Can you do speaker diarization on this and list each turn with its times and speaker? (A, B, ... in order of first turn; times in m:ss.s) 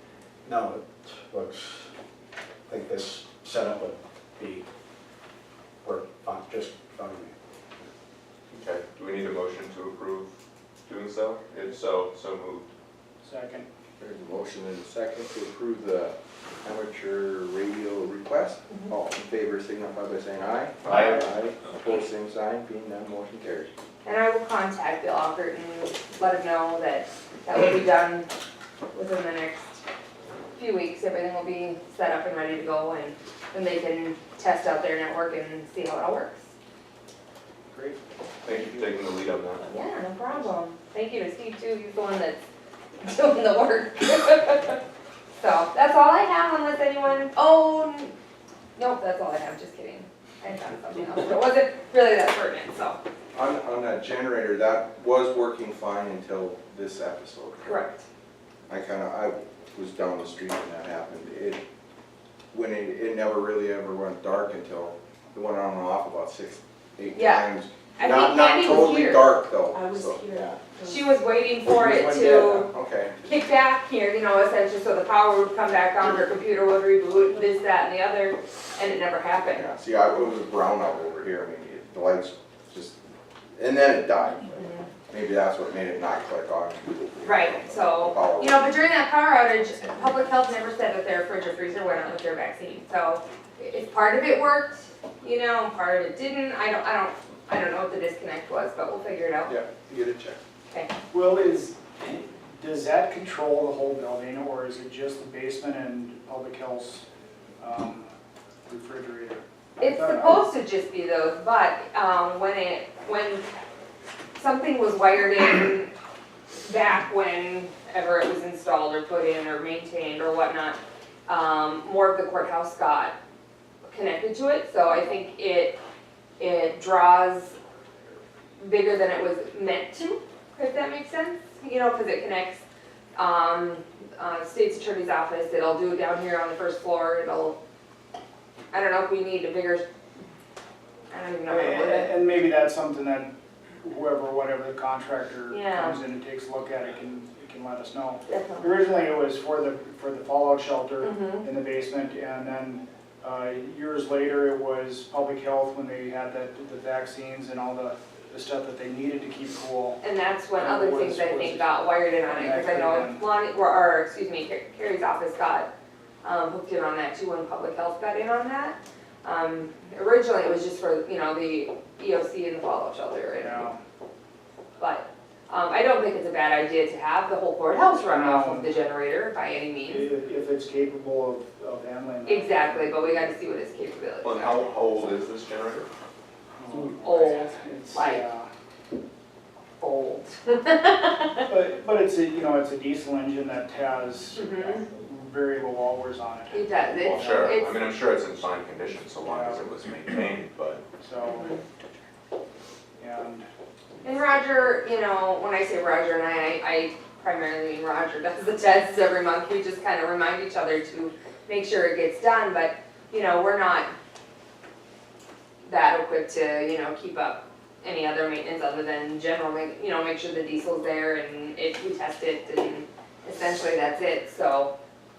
0:00.5-0:01.9 A
0:02.7-0:04.6 A
0:05.8-0:07.3 A
0:08.5-0:10.4 B
0:10.9-0:12.7 B
0:13.2-0:13.7 C
0:14.0-0:23.7 D
0:20.9-0:21.2 C
0:24.0-0:28.3 E
0:28.9-0:29.8 E
0:30.6-0:36.4 E
0:37.7-0:38.0 C
0:38.4-0:39.6 B
0:39.7-0:42.4 E
0:43.0-0:44.8 E
0:45.4-0:48.1 E
0:48.8-0:53.0 E
0:53.3-0:57.8 D
0:57.6-0:58.0 E
0:58.7-1:01.6 D
1:02.5-1:10.6 D
1:07.1-1:09.3 E
1:10.9-1:12.7 E
1:11.7-1:13.1 D
1:13.2-1:19.7 E
1:19.4-1:23.0 D
1:23.6-1:28.7 D
1:24.6-1:24.9 E
1:27.2-1:39.5 E
1:41.1-1:47.0 C
1:47.6-1:48.1 C
1:48.7-1:50.4 C
1:49.8-1:53.4 E
1:54.4-1:55.9 E
1:56.6-2:03.2 E
2:03.9-2:05.8 E
2:06.4-2:07.6 E
2:08.6-2:12.6 E
2:13.2-2:17.6 E
2:18.7-2:19.8 E
2:21.1-2:22.1 E
2:21.5-2:40.0 C
2:25.5-2:26.0 E
2:28.3-2:28.7 E
2:31.0-2:31.4 E
2:40.0-2:45.7 E
2:40.6-2:43.2 C
2:46.2-2:53.7 E
2:53.4-2:53.8 C
2:54.8-3:00.0 E
2:58.1-2:58.8 C
2:59.9-3:03.1 C
3:02.3-3:04.8 E
3:04.2-3:05.9 B
3:06.5-3:08.5 C
3:06.8-3:08.2 E
3:09.8-3:10.4 E
3:11.5-3:17.5 C
3:14.4-3:14.8 E
3:16.5-3:17.7 E
3:16.9-3:20.8 B
3:19.2-3:19.7 C
3:21.0-3:21.5 C
3:21.2-3:21.6 E
3:23.0-3:23.5 C
3:24.0-3:33.9 E
3:35.6-3:44.7 E